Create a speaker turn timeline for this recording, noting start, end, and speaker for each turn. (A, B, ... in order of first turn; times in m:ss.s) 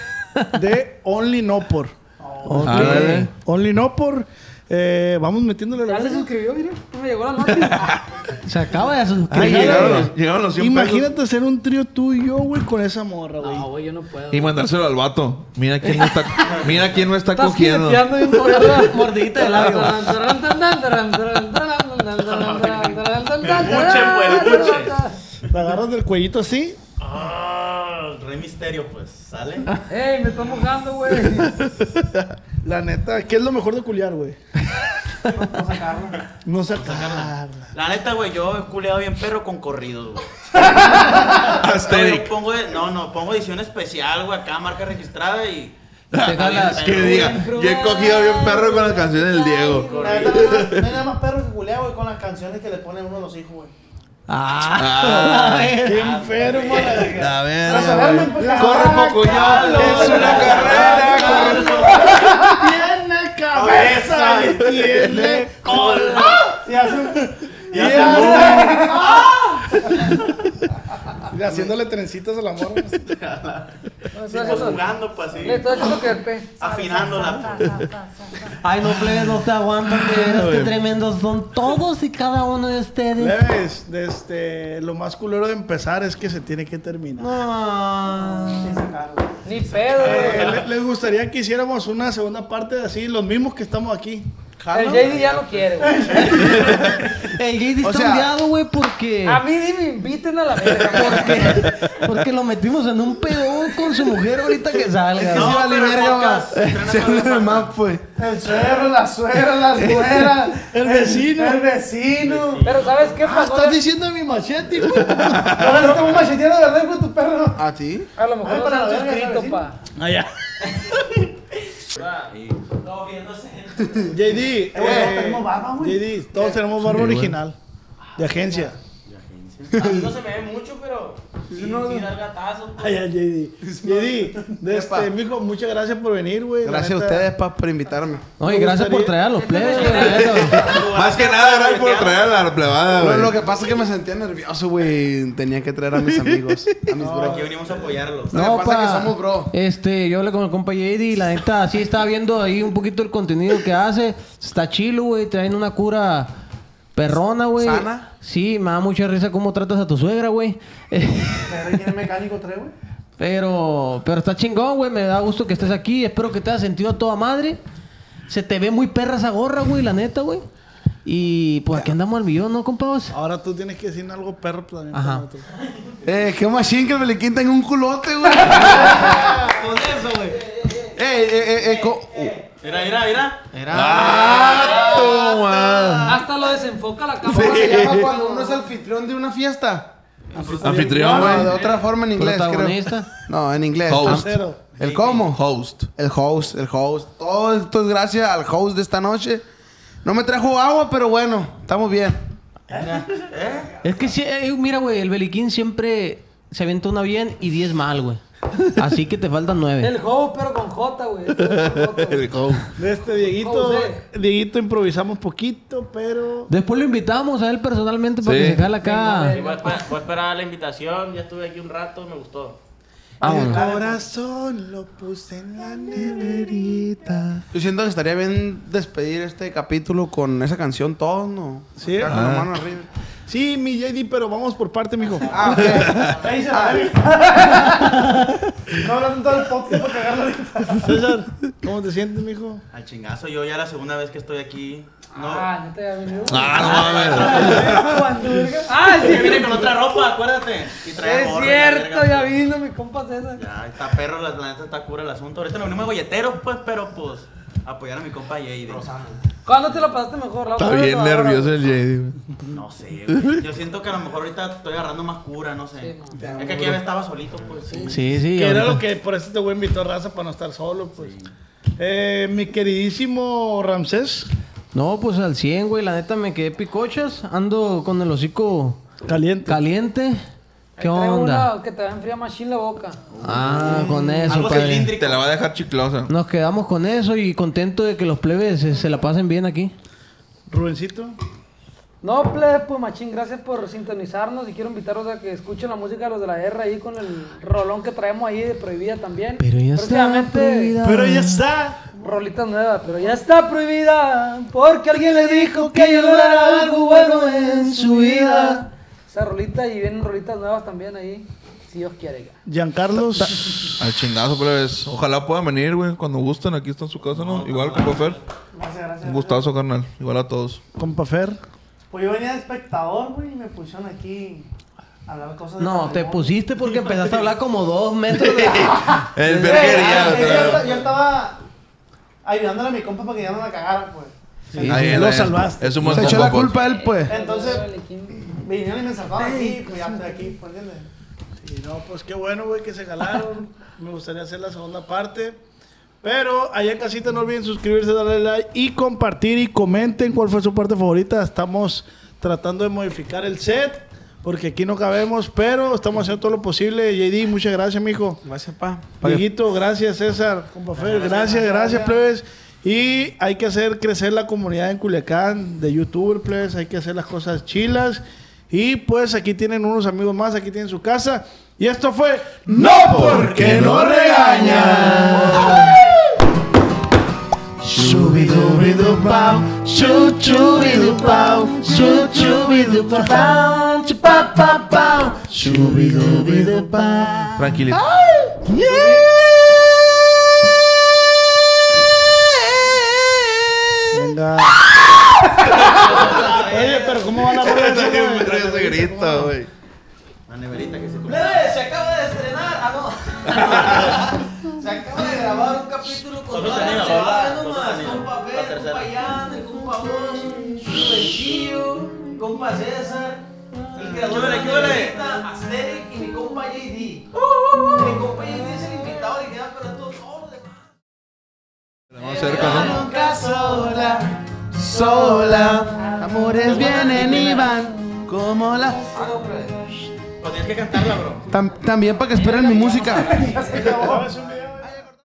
0:00.4-0:02.0 A
0:02.2-0:02.7 B
0:02.4-0:03.3 C
0:02.6-0:06.3 A
0:02.6-0:03.3 D
0:05.8-0:08.0 E
0:07.5-0:08.0 D
0:08.4-0:10.1 C
0:09.3-0:11.1 D
0:09.3-0:13.7 A
0:13.4-0:14.6 E
0:14.3-0:18.3 D
0:16.0-0:16.6 E
0:16.5-0:16.8 F
0:17.3-0:25.2 E
0:18.3-0:20.1 C
0:22.3-0:22.9 F
0:23.4-0:25.0 F
0:25.5-0:26.8 A
0:27.0-0:29.8 F
0:29.9-0:31.5 E
0:31.6-0:32.0 D
0:32.6-0:34.4 A
0:35.3-0:36.2 B
0:36.4-0:37.7 A
0:36.7-0:40.3 F
0:40.8-0:42.3 D
0:41.8-0:45.8 F
0:46.1-0:50.9 D
0:46.2-0:47.2 C
0:46.3-0:47.5 F
0:47.3-0:50.4 E
0:49.7-0:50.5 F
0:49.9-0:53.7 B
0:54.3-0:56.0 C
0:54.7-0:55.8 D
0:55.8-0:57.3 A
0:56.0-0:57.1 F
0:57.1-1:01.7 D
0:57.6-1:02.1 B
0:58.4-1:06.5 A
0:59.0-1:02.1 F
1:03.5-1:06.5 F
1:06.5-1:09.2 B
1:07.7-1:08.9 A
1:07.7-1:08.8 F
1:11.2-1:13.1 A
1:13.1-1:13.6 F
1:14.1-1:14.9 E
1:14.3-1:15.9 F
1:15.4-1:17.8 E
1:16.6-1:17.8 F
1:17.6-1:17.8 D
1:18.6-1:23.4 C
1:18.9-1:19.4 D
1:20.0-1:20.8 D
1:23.2-1:27.3 A
1:27.2-1:28.8 C
1:28.6-1:29.4 B
1:29.4-1:30.6 E
1:30.0-1:34.3 A
1:34.6-1:35.3 G
1:34.7-1:36.3 E
1:35.8-1:37.0 B
1:36.2-1:39.4 C
1:37.8-1:38.3 G
1:39.2-1:41.8 E
1:40.8-1:45.6 C
1:45.1-1:48.0 G
1:45.3-1:47.7 F
1:48.2-1:52.7 B
1:50.0-1:51.6 A
1:52.2-1:53.1 F
1:52.6-1:53.8 E
1:53.2-1:55.6 A
1:55.0-1:55.9 D
1:55.4-1:57.6 B
1:57.6-1:58.1 G
1:58.2-1:59.8 E
1:58.4-1:59.6 B
2:00.0-2:01.0 A
2:01.9-2:04.5 H
2:02.3-2:02.6 F
2:04.1-2:07.6 A
2:04.7-2:06.1 B
2:04.8-2:05.3 G
2:06.8-2:07.4 D
2:08.2-2:08.8 A
2:08.3-2:08.7 B
2:09.0-2:09.8 F
2:09.7-2:13.0 H
2:11.5-2:12.1 G
2:12.8-2:17.3 A
2:13.7-2:14.0 G
2:13.9-2:14.5 B
2:14.6-2:15.1 G
2:16.6-2:18.3 G
2:18.4-2:20.7 C
2:18.4-2:19.2 A
2:19.4-2:20.7 E
2:19.8-2:22.4 F
2:20.0-2:23.4 D
2:22.9-2:27.4 G
2:27.0-2:27.5 B
2:27.1-2:28.4 F
2:28.3-2:29.5 G
2:28.3-2:36.3 C
2:36.9-2:41.8 C
2:37.6-2:38.1 G
2:41.5-2:42.7 B
2:43.2-2:47.6 C
2:48.3-2:50.5 C
2:51.0-2:53.1 C
2:53.1-2:55.5 A
2:54.9-2:55.2 C
2:56.0-2:59.6 G
2:58.9-3:00.9 H
3:00.9-3:02.4 G
3:01.6-3:02.7 H
3:02.6-3:03.4 F
3:03.5-3:04.6 C
3:03.7-3:06.2 D
3:04.1-3:06.2 G
3:06.0-3:08.6 E
3:07.2-3:09.9 G
3:07.3-3:08.1 D
3:10.3-3:10.8 F
3:10.3-3:11.6 B
3:10.6-3:11.6 D
3:11.0-3:14.2 G
3:12.2-3:13.1 C
3:13.9-3:14.3 D
3:14.1-3:14.6 A
3:14.8-3:15.4 G
3:14.8-3:15.2 F
3:15.2-3:15.9 D
3:16.0-3:19.4 G
3:20.0-3:22.2 G
3:22.8-3:23.0 C
3:23.3-3:23.7 F
3:23.8-3:28.2 C
3:28.7-3:29.9 C
3:29.8-3:32.6 E
3:31.3-3:32.7 D
3:32.8-3:36.5 A
3:33.4-3:34.0 E
3:36.5-3:39.3 C
3:38.2-3:38.7 D
3:38.8-3:39.9 E
3:39.3-3:42.6 H
3:43.2-3:43.6 C
3:43.2-3:47.2 A
3:43.2-3:44.0 B
3:46.1-3:47.4 D
3:47.5-3:52.9 G
3:51.8-3:52.2 A
3:52.1-3:52.5 D
3:53.3-3:55.9 A
3:55.2-3:56.4 F
3:55.3-3:56.9 G
3:55.6-3:56.1 D
3:56.1-3:57.9 B
3:58.8-4:01.0 B
4:00.8-4:02.6 A
4:02.7-4:05.5 F
4:05.1-4:09.8 E
4:06.2-4:08.3 D
4:06.5-4:07.9 F
4:07.5-4:08.6 B
4:08.9-4:12.3 F
4:11.0-4:13.4 E
4:13.4-4:18.9 F
4:18.7-4:19.2 H
4:19.4-4:21.6 E
4:20.6-4:22.2 D
4:22.5-4:28.0 F
4:23.1-4:23.4 D
4:25.8-4:26.2 E
4:26.2-4:26.8 G
4:26.3-4:26.7 B
4:27.8-4:31.1 A
4:27.9-4:28.8 C
4:30.9-4:31.3 F
4:31.8-4:34.3 A
4:34.7-4:38.8 C
4:39.0-4:39.6 A
4:39.4-4:40.2 C
4:40.8-4:41.5 C
4:40.8-4:43.0 E
4:43.2-4:44.9 C
4:44.3-4:45.3 F
4:44.9-4:46.1 D
4:46.1-4:49.7 C
4:50.5-4:51.2 A
4:52.0-5:00.7 E
4:59.4-5:01.4 C
5:00.8-5:01.9 A
5:02.0-5:08.5 E
5:05.3-5:08.7 C
5:09.1-5:12.4 E
5:12.5-5:13.4 A
5:13.8-5:18.2 D
5:17.1-5:18.2 F
5:18.5-5:19.5 B
5:19.0-5:20.6 D
5:20.8-5:21.4 A
5:21.9-5:24.5 B
5:25.0-5:26.3 B
5:25.6-5:30.5 C
5:28.1-5:30.7 D
5:29.3-5:31.4 B
5:32.2-5:35.1 B
5:34.6-5:36.2 A
5:34.6-5:36.6 D
5:35.9-5:37.1 G
5:36.4-5:38.3 E
5:37.0-5:37.6 B
5:38.4-5:40.9 B
5:41.4-5:45.4 A
5:46.0-5:58.2 A
5:58.2-5:59.2 G
5:59.0-6:15.7 A
6:00.7-6:02.0 B
6:14.3-6:14.7 G
6:14.7-6:15.5 C
6:17.6-6:27.4 C
6:27.4-6:27.8 D
6:28.7-6:29.0 B
6:33.9-6:34.6 A
6:35.6-6:39.3 A
6:35.7-6:36.8 H
6:36.3-6:36.9 C
6:37.3-6:39.5 D
6:40.3-6:41.4 F
6:41.0-7:00.6 C
6:46.3-6:48.9 F
6:53.9-6:55.0 F
7:01.9-7:02.7 D
7:02.2-7:02.6 B
7:02.3-7:09.1 G
7:02.3-7:03.8 C
7:04.8-7:05.6 C
7:06.4-7:07.3 C
7:06.4-7:07.5 F
7:08.9-7:09.6 C
7:10.2-7:11.3 F
7:11.3-7:13.2 G
7:12.9-7:14.1 B
7:13.5-7:14.7 A